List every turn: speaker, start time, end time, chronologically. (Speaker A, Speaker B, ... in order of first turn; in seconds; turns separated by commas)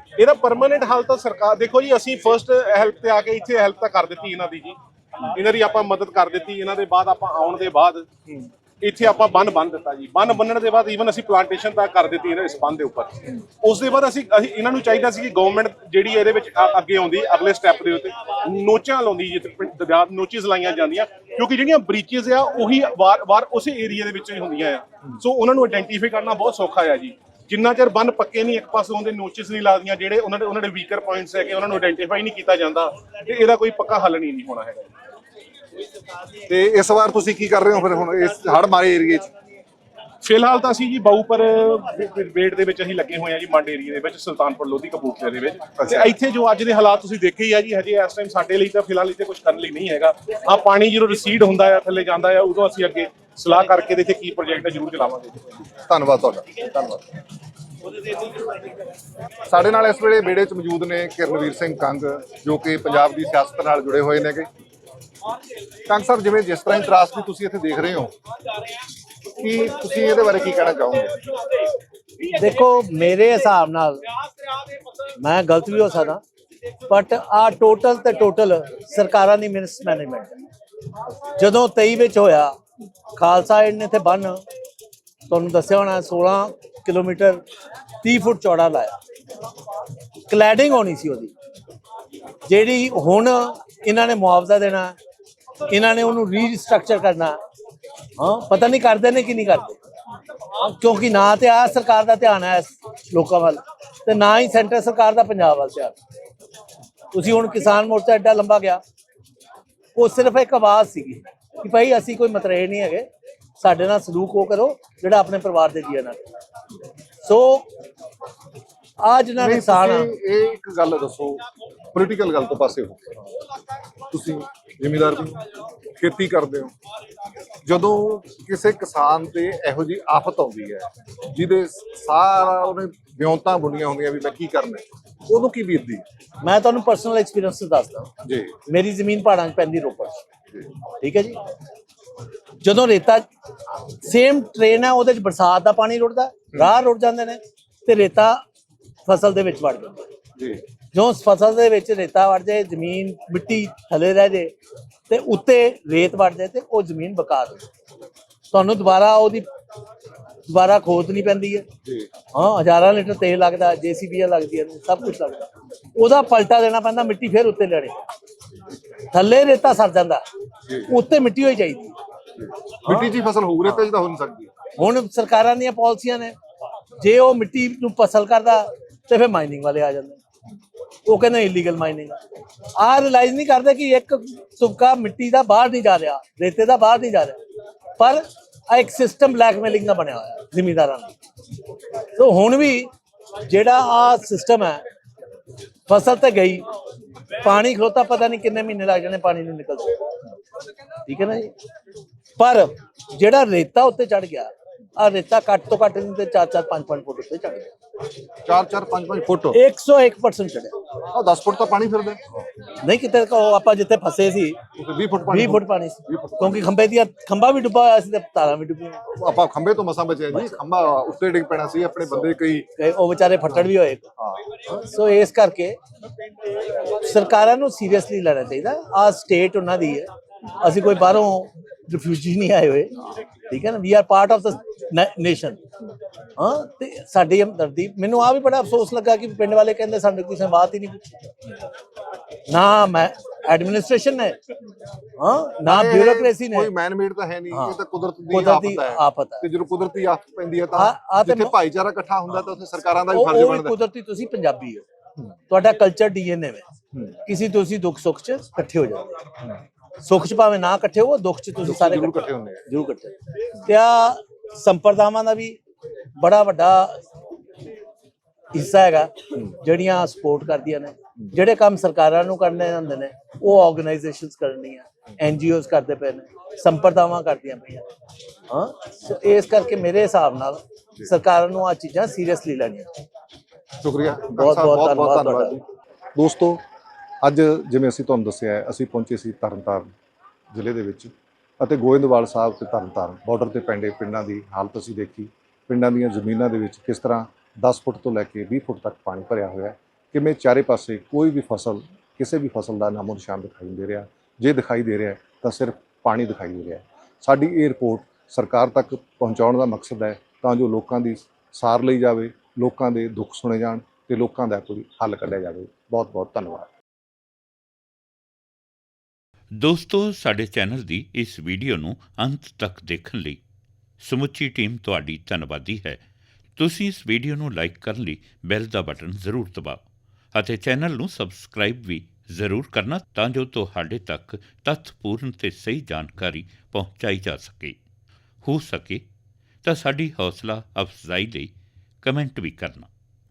Speaker A: 0.2-4.8, Speaker A: 5.3-8.1, Speaker A: 8.8-34.9, Speaker B: 36.5-39.3, Speaker A: 40.2-55.7, Speaker B: 45.8-46.1, Speaker B: 55.9-57.0, Speaker B: 59.5-64.5, Speaker B: 65.9-68.1, Speaker B: 69.4-71.2, Speaker C: 72.3-74.0, Speaker C: 75.2-76.2, Speaker C: 76.9-80.4, Speaker C: 81.3-82.6, Speaker C: 83.2-84.4, Speaker C: 85.3-87.4, Speaker C: 88.0-89.0, Speaker C: 90.3-91.3, Speaker C: 92.5-95.0, Speaker C: 95.7-97.4, Speaker C: 98.2-99.8, Speaker C: 100.6-106.0, Speaker C: 107.1-108.8, Speaker C: 110.0-113.1, Speaker C: 113.6-116.2, Speaker C: 117.2-117.7, Speaker C: 119.0-120.1, Speaker B: 119.4-121.4, Speaker B: 121.9-123.2, Speaker B: 124.1-126.7, Speaker B: 127.6-136.0, Speaker C: 136.4-138.1, Speaker B: 138.2-138.5, Speaker C: 138.7-140.2, Speaker C: 141.0-141.4, Speaker C: 142.6-143.3, Speaker C: 144.0-148.4, Speaker C: 149.1-150.1, Speaker B: 150.4-150.6, Speaker C: 150.9-154.5, Speaker C: 155.1-157.7, Speaker C: 158.5-159.5, Speaker C: 160.5-161.7, Speaker B: 161.8-162.1, Speaker C: 162.3-168.0, Speaker C: 169.1-170.2, Speaker B: 170.7-170.9, Speaker C: 170.9-172.0, Speaker B: 172.4-174.5, Speaker C: 174.8-176.3, Speaker C: 177.0-180.2, Speaker C: 181.1-182.2, Speaker C: 182.8-187.4, Speaker C: 188.0-191.1, Speaker C: 192.2-192.9, Speaker C: 193.5-194.8, Speaker C: 195.9-196.7, Speaker C: 197.4-200.0, Speaker C: 201.1-201.5, Speaker C: 202.4-207.7, Speaker B: 208.4-209.6, Speaker C: 209.5-210.8, Speaker B: 211.1-212.2, Speaker C: 212.8-214.6, Speaker B: 214.8-216.7, Speaker C: 215.3-219.0, Speaker B: 219.1-222.7, Speaker C: 222.2-224.1, Speaker C: 224.7-225.8, Speaker C: 226.9-230.1, Speaker C: 230.6-235.6, Speaker C: 236.4-241.1, Speaker C: 242.5-244.4, Speaker C: 245.2-246.7, Speaker B: 245.7-253.8, Speaker C: 247.5-247.8, Speaker C: 248.3-249.4, Speaker C: 250.8-251.5, Speaker C: 253.1-254.8, Speaker C: 255.5-256.6, Speaker B: 256.9-257.2, Speaker C: 257.3-259.1, Speaker C: 260.0-263.1, Speaker B: 261.6-262.7, Speaker C: 263.6-265.6, Speaker C: 266.2-267.0, Speaker C: 268.5-277.9, Speaker C: 278.5-282.9, Speaker B: 283.8-285.6, Speaker C: 284.4-285.6, Speaker B: 286.2-286.6, Speaker B: 287.2-289.9, Speaker B: 290.5-316.7, Speaker D: 319.6-323.4, Speaker D: 324.0-326.0, Speaker D: 326.6-329.8, Speaker D: 330.3-337.8, Speaker D: 338.4-339.0, Speaker D: 339.6-341.5, Speaker D: 342.0-342.9